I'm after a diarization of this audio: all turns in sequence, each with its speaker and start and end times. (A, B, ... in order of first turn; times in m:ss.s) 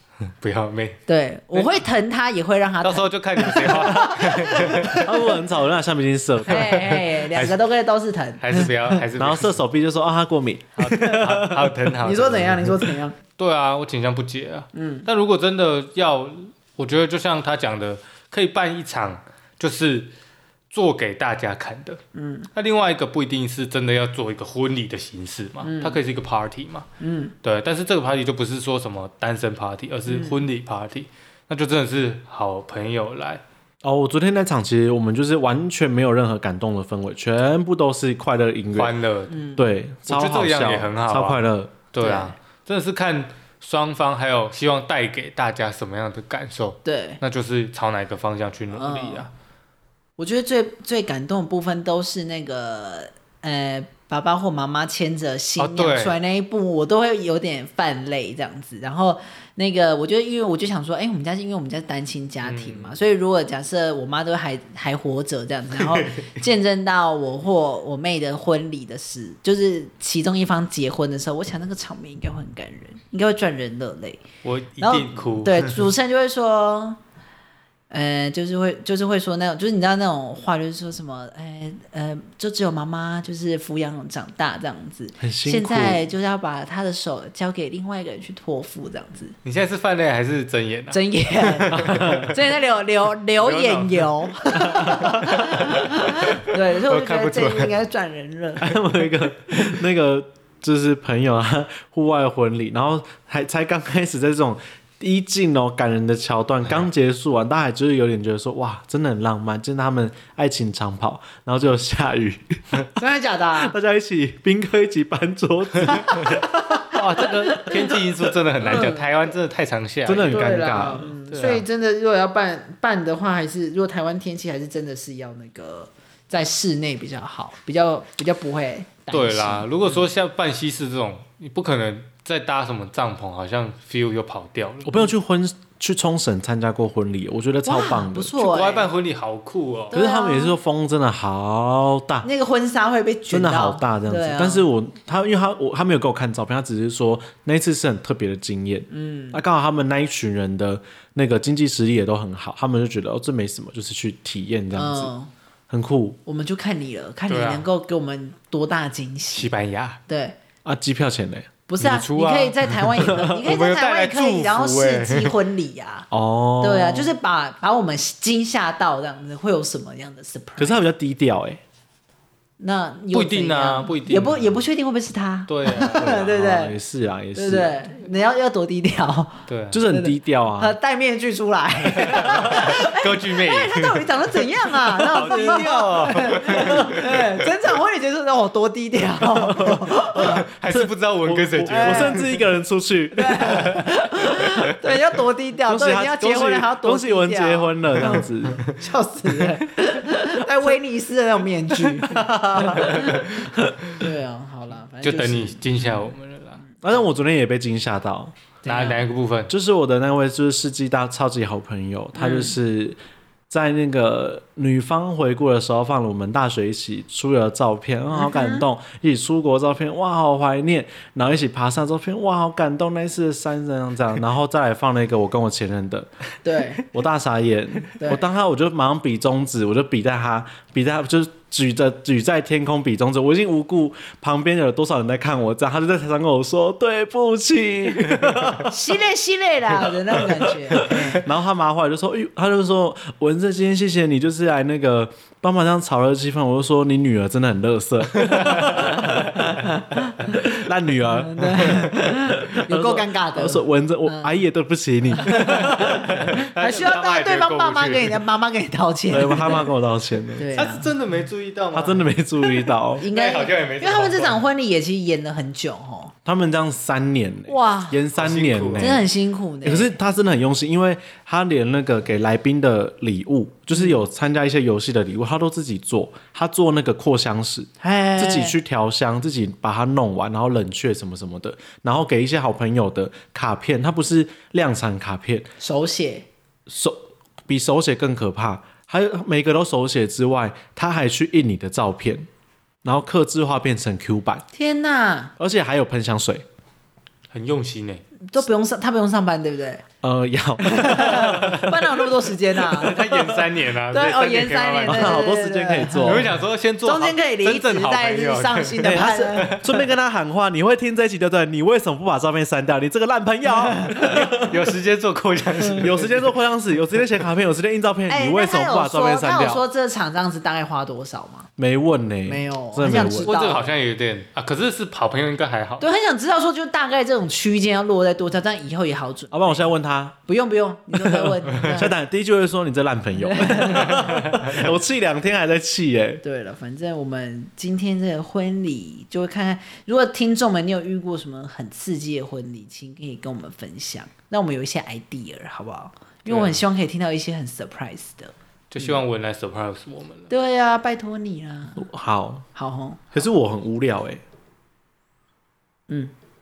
0:00.4-0:01.0 A
0:01.1-0:05.1 B
0:01.5-0:01.8 A
0:02.8-0:05.2 A
0:04.9-0:07.0 C
0:06.5-0:08.9 B
0:06.5-0:07.6 A
0:08.4-0:09.6 A
0:09.2-0:11.8 C
0:10.8-0:12.8 A
0:12.0-0:13.2 B
0:13.4-0:20.1 A
0:14.7-0:15.1 B
0:20.7-0:22.0 A
0:22.1-0:22.5 B
0:22.6-0:26.9 A
0:25.6-0:26.0 B
0:27.0-0:27.3 B
0:27.4-0:33.4 A
0:30.1-0:30.4 B
0:33.8-0:38.9 C
0:38.8-0:39.4 A
0:39.3-0:39.6 B
0:39.6-0:41.7 C
0:40.1-0:41.4 A
0:41.9-0:49.3 A
0:42.0-0:42.4 B
0:46.8-0:47.2 B
0:48.7-0:49.3 B
0:50.2-1:14.2 B
0:55.6-0:56.2 A
1:02.4-1:03.0 A
1:05.8-1:06.3 A
1:14.4-1:15.9 A
1:14.8-1:17.0 B
1:17.9-1:29.4 B
1:25.2-1:26.0 C
1:29.4-1:32.4 A
1:30.9-1:38.8 B
1:31.7-1:32.3 C
1:33.4-1:37.7 A
1:34.9-1:35.3 C
1:38.6-1:52.9 C
1:53.0-1:53.8 B
1:53.6-1:58.3 C
1:56.0-1:57.9 B
1:56.4-2:01.6 A
1:58.6-1:59.1 B
2:00.0-2:01.1 C
2:00.2-2:10.0 B
2:09.1-2:15.1 A
2:14.8-2:18.4 C
2:17.6-2:18.9 B
2:18.4-2:20.0 A
2:19.9-2:20.6 B
2:19.9-2:22.3 C
2:22.2-2:24.7 B
2:23.3-2:35.1 C
2:28.9-2:29.4 B
2:34.7-2:35.3 B
2:35.7-2:36.2 C
2:36.3-2:39.5 B
2:37.3-2:37.7 A
2:39.3-2:40.0 A
2:40.1-2:40.4 B
2:40.6-2:41.5 C
2:41.7-2:46.1 B
2:41.8-2:45.4 A
2:43.0-2:43.4 C
2:46.1-2:47.2 C
2:46.6-2:50.8 B
2:50.6-2:51.6 C
2:52.6-2:56.8 B
2:53.1-2:54.6 A
2:55.5-2:56.2 A
2:56.0-2:57.7 C
2:57.3-2:59.4 B
2:59.5-2:59.9 A
2:59.7-3:00.8 C
2:59.9-3:10.5 B
3:02.2-3:04.1 A
3:05.0-3:06.9 C
3:05.0-3:07.2 A
3:09.2-3:13.8 C
3:10.1-3:12.4 A
3:11.7-3:12.3 B
3:13.1-3:25.8 B
3:13.4-3:14.0 A
3:15.7-3:18.6 C
3:21.9-3:23.9 C
3:22.8-3:23.2 A
3:25.0-3:26.6 A
3:26.8-3:28.3 C
3:28.6-3:29.0 B
3:28.7-3:29.5 A
3:29.5-3:33.0 C
3:32.2-3:32.6 B
3:33.5-3:46.1 C
3:38.2-3:38.6 B
3:46.4-3:46.9 B
3:46.9-3:58.8 C
3:48.0-3:48.2 B
3:58.7-4:01.3 B
3:59.7-4:09.5 C
4:08.2-4:08.9 A
4:09.0-4:10.5 B
4:10.3-4:16.0 C
4:11.0-4:14.4 B
4:15.1-4:19.7 B
4:15.4-4:18.2 A
4:19.1-4:20.5 C
4:20.4-4:20.9 B
4:20.5-4:22.1 A
4:21.7-4:23.1 C
4:23.0-4:26.1 B
4:23.0-4:24.4 A
4:26.2-4:29.1 C
4:27.5-4:28.0 B
4:28.1-4:29.0 A
4:28.8-4:30.0 B
4:29.6-4:45.5 C
4:37.8-4:38.6 B
4:45.6-4:46.3 B
4:46.7-4:52.3 C
4:52.8-4:54.4 C
4:54.5-4:55.3 B
4:55.4-4:56.4 C
4:57.3-4:58.0 A
4:58.3-4:59.8 B
5:00.0-5:02.2 C
5:00.6-5:03.0 B
5:02.7-5:05.3 A
5:02.9-5:03.4 C
5:03.9-5:06.3 B
5:04.9-5:06.3 C
5:06.0-5:09.8 A
5:06.8-5:09.5 B
5:08.8-5:14.6 C
5:14.0-5:16.4 A
5:15.7-5:19.6 C
5:18.1-5:21.5 B
5:21.6-5:23.3 C
5:22.2-5:23.7 B
5:22.9-5:25.9 A
5:25.8-5:29.7 B
5:29.3-5:30.2 C
5:30.3-5:31.9 B
5:31.0-5:36.2 C
5:33.1-5:34.1 B
5:34.1-5:34.6 A
5:36.2-5:48.3 B
5:46.2-5:46.6 A
5:48.7-5:50.3 A
5:50.3-5:51.8 B
5:51.8-5:52.5 C
5:52.6-5:53.2 B
5:53.1-5:54.2 C